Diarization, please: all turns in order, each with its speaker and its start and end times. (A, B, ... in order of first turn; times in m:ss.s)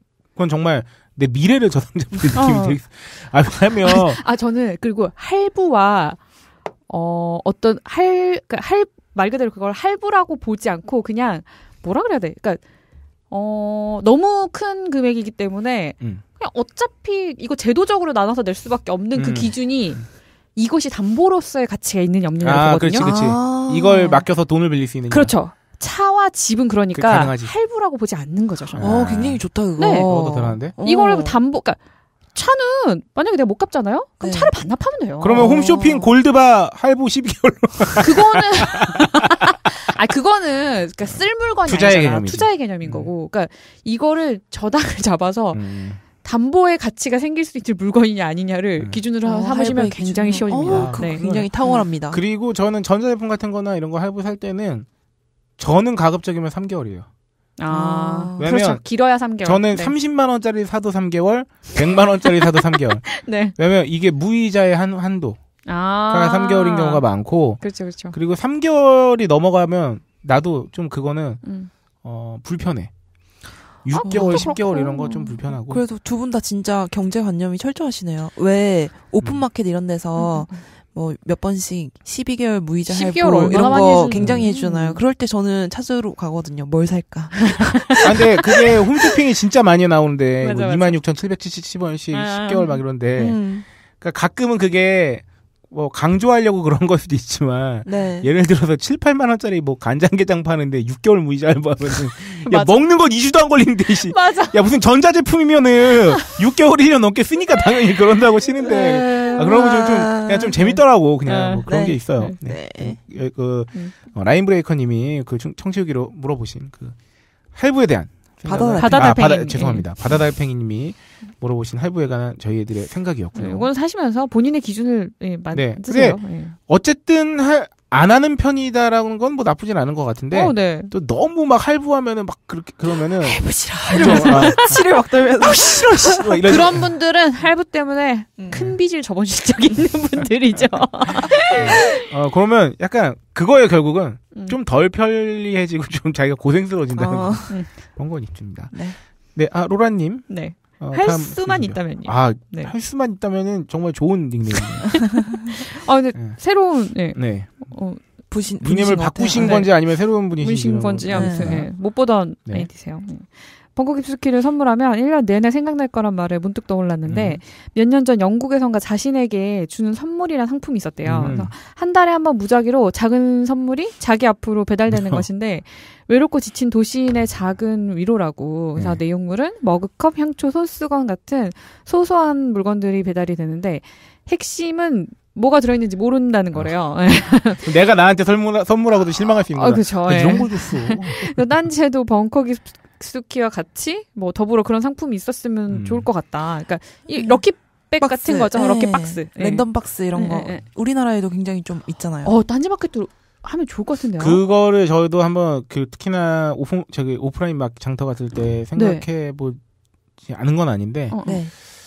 0:00.4-0:04.2 A
0:02.3-0:02.8 B
0:03.8-0:06.2 B
0:06.9-0:12.6 B
0:13.3-0:20.0 B
0:19.1-0:20.0 A
0:20.5-0:23.1 B
0:22.4-0:25.3 A
0:23.0-0:24.2 C
0:25.1-0:28.9 B
0:26.9-0:27.5 A
0:28.7-0:30.7 A
0:28.8-0:31.4 C
0:29.8-0:30.1 B
0:30.8-0:31.8 B
0:32.3-0:35.6 B
0:34.2-0:34.5 C
0:35.2-0:39.0 A
0:35.3-0:36.1 C
0:38.0-0:51.8 B
0:41.6-0:43.1 A
0:45.5-0:46.0 A
0:49.2-0:52.2 C
0:50.6-0:51.5 A
0:52.1-0:54.9 A
0:55.6-0:57.1 A
0:57.6-0:59.9 B
0:57.7-0:58.4 C
0:58.4-0:58.8 A
0:59.4-1:05.4 A
1:03.1-1:03.5 B
1:05.7-1:07.0 B
1:06.1-1:11.4 A
1:07.6-1:08.1 B
1:11.4-1:11.7 B
1:12.0-1:12.9 A
1:13.8-1:15.8 A
1:13.9-1:15.4 B
1:14.1-1:14.6 C
1:15.7-1:28.2 C
1:20.2-1:20.6 B
1:22.9-1:25.0 B
1:23.5-1:24.4 A
1:27.7-1:28.0 B
1:28.0-1:33.4 A
1:30.4-1:31.0 B
1:32.1-1:32.8 B
1:33.2-1:33.6 C
1:34.0-1:57.0 A
1:37.8-1:38.3 C
1:42.4-1:42.8 B
1:44.1-1:44.6 B
1:48.6-1:50.7 C
1:49.0-1:49.4 B
1:51.2-1:51.6 B
1:51.7-1:53.0 C
1:57.5-2:03.7 A
1:58.4-1:59.3 C
1:58.8-1:59.9 B
2:03.3-2:06.6 B
2:05.5-2:14.8 A
2:10.3-2:10.9 B
2:13.2-2:16.6 C
2:13.9-2:14.8 B
2:15.4-2:22.0 B
2:15.4-2:16.8 A
2:18.4-2:18.8 C
2:21.5-2:28.8 A
2:24.3-2:24.6 B
2:26.9-2:27.6 C
2:28.7-2:29.0 C
2:29.3-2:35.3 A
2:30.3-2:32.7 B
2:35.2-2:38.0 B
2:36.1-2:36.4 A
2:37.1-2:37.7 A
2:38.3-2:39.6 C
2:38.6-2:41.7 A
2:39.3-3:07.6 B
2:41.1-2:41.6 C
2:42.4-2:42.7 A
2:47.1-2:47.4 A
2:51.0-2:51.5 A
2:54.9-2:55.2 A
3:07.6-3:11.5 A
3:09.5-3:20.6 B
3:15.7-3:16.1 A
3:17.1-3:17.4 C
3:18.0-3:22.3 C
3:22.2-3:24.4 B
3:24.2-3:29.6 A
3:28.7-3:29.0 B
3:30.2-3:31.2 A
3:31.1-3:31.4 B
3:31.2-3:31.5 C